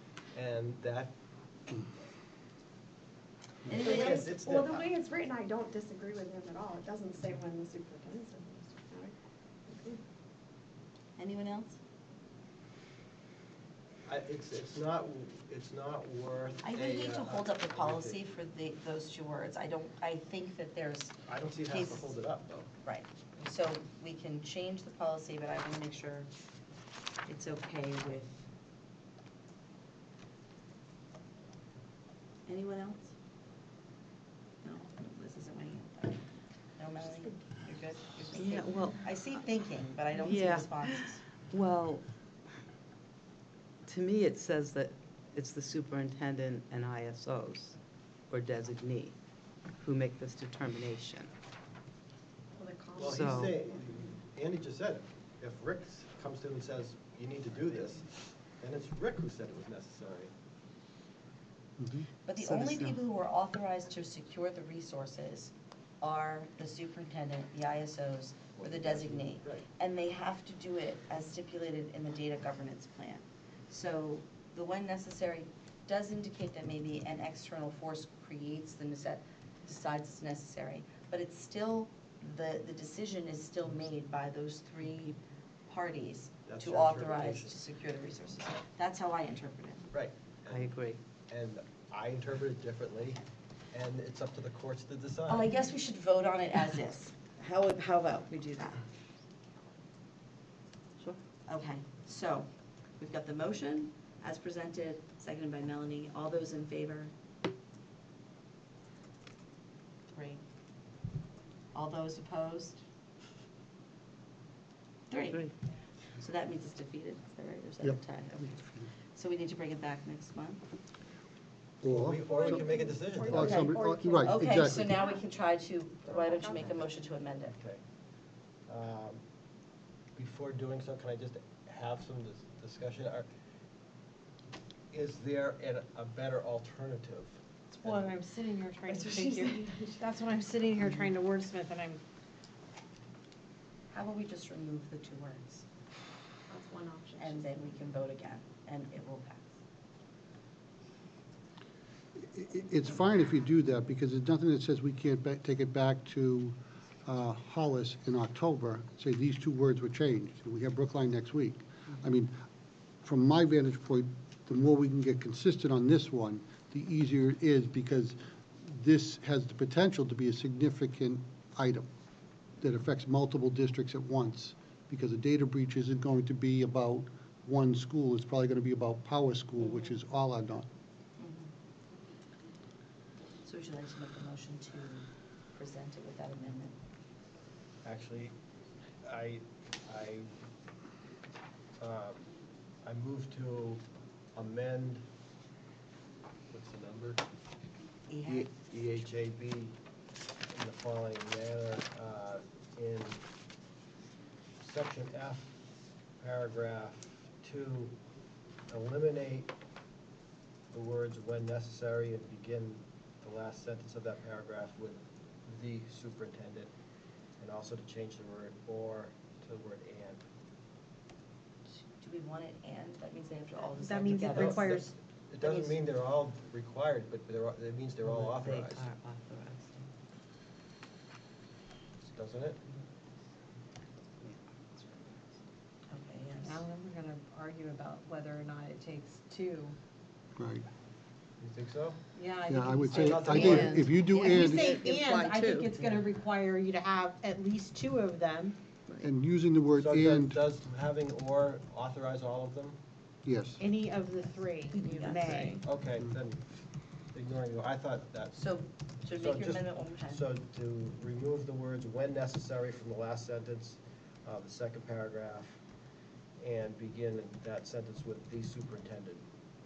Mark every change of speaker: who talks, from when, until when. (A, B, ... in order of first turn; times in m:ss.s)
0:00.3-0:01.1 A
0:03.7-0:04.4 B
0:03.7-0:04.9 A
0:03.8-0:09.1 C
0:09.7-0:10.0 C
0:11.2-0:11.8 B
0:14.0-0:18.2 A
0:16.6-0:22.2 B
0:21.2-0:22.7 A
0:22.8-0:26.3 B
0:27.2-0:28.5 B
0:32.5-0:33.1 B
0:34.6-0:36.2 B
0:36.8-0:41.2 B
0:38.3-0:39.0 D
0:40.2-0:42.0 D
0:43.8-0:47.8 D
0:48.3-0:49.1 D
0:49.8-0:51.3 D
0:52.6-0:53.8 C
0:53.0-1:00.3 A
0:53.2-0:53.5 D
1:01.8-1:02.1 E
1:02.2-1:29.9 B
1:08.6-1:09.6 A
1:26.5-1:27.6 A
1:29.9-1:30.7 A
1:30.5-1:31.0 D
1:31.3-1:33.2 A
1:33.7-1:35.5 A
1:35.3-1:38.8 B
1:41.4-1:47.1 B
1:50.1-1:50.4 B
1:51.7-1:52.8 B
1:55.1-1:55.5 B
1:56.2-1:58.6 B
1:57.8-1:58.9 E
1:59.1-2:00.6 B
2:01.8-2:02.6 E
2:01.9-2:03.5 A
2:02.3-2:05.2 C
2:03.3-2:05.0 E
2:03.3-2:07.5 B
2:06.0-2:07.0 C
2:07.5-2:07.8 A
2:08.7-2:09.2 A
2:10.1-2:13.2 A
2:14.9-2:18.1 A
2:17.7-2:22.0 F
2:18.9-2:20.0 C
2:23.9-2:25.6 B
2:26.5-2:27.5 C
2:27.2-2:29.5 B
2:32.2-2:42.3 E
2:43.0-2:51.9 E
2:52.6-3:00.7 E
2:59.6-3:00.0 B
3:01.2-3:01.5 B
3:03.4-3:06.8 B
3:07.8-3:08.3 A
3:09.0-3:10.3 A
3:11.8-3:12.3 A
3:12.8-3:13.8 A
3:14.3-3:15.0 A
3:16.5-3:17.2 A
3:18.1-3:18.5 B
3:18.3-3:19.7 A
3:20.5-3:23.2 A
3:24.6-3:25.5 A
3:26.2-3:27.9 A
3:28.7-3:29.5 A
3:30.7-3:36.7 A
3:37.4-3:40.2 A
3:41.8-3:44.8 B
3:43.8-3:44.9 F
3:44.2-3:48.9 A
3:45.4-3:45.8 B
3:48.0-3:49.9 D
3:52.0-3:52.6 A
3:54.2-3:55.2 D
3:55.9-3:56.6 B
3:56.4-3:59.8 F
4:00.4-4:00.6 E
4:01.4-4:02.0 A
4:02.1-4:08.6 F
4:02.5-4:04.7 E
4:02.9-4:03.8 A
4:03.3-4:05.9 D
4:09.0-4:10.4 E
4:09.7-4:12.8 A
4:13.2-4:13.6 E
4:13.6-4:15.6 F
4:14.8-4:15.6 B
4:15.6-4:16.4 A
4:17.1-4:18.4 A
4:18.3-4:20.2 B
4:19.1-4:25.6 A
4:26.4-4:29.2 A